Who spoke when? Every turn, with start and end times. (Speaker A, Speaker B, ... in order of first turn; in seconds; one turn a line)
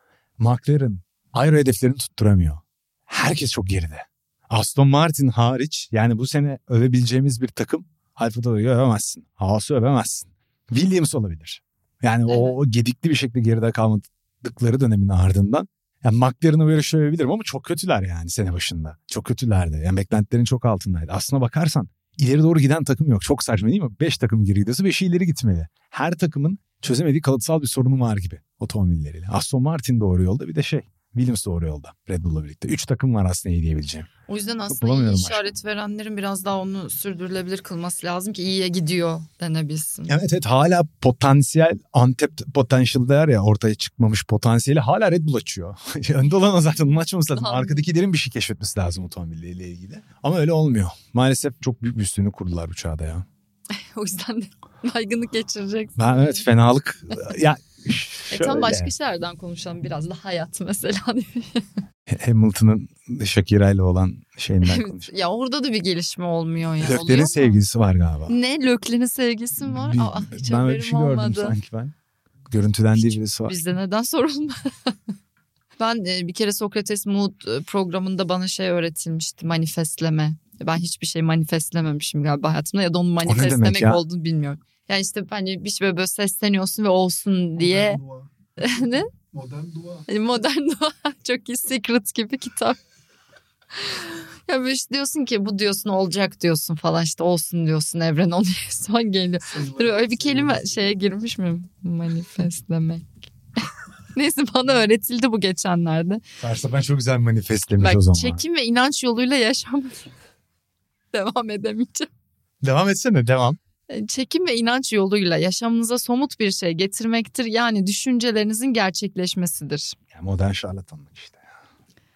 Speaker A: 0.4-34.1
Speaker B: 12.3-12.6
Speaker B: 34.3-40.1
Speaker A: 34.7-35.5
Speaker A: 40.1-53.2
Speaker B: 47.3-47.8
Speaker B: 53.7-56.4
Speaker A: 56.0-58.9
Speaker B: 58.3-61.7
Speaker A: 62.1-65.1
Speaker B: 64.6-67.6
Speaker A: 66.8-68.3
Speaker B: 68.3-71.5
Speaker A: 69.7-71.9
Speaker A: 72.5-73.5
Speaker B: 73.0-75.0
Speaker B: 75.8-88.0
Speaker A: 83.2-84.0
Speaker C: 87.6-88.3
Speaker B: 88.6-89.1
Speaker C: 89.3-90.1
Speaker B: 90.1-92.8
Speaker B: 93.8-106.2
Speaker C: 99.5-100.8
Speaker A: 106.4-108.4
Speaker B: 107.8-110.1
Speaker B: 111.1-112.1
Speaker A: 112.6-113.6
Speaker B: 113.9-120.0
Speaker A: 120.1-121.4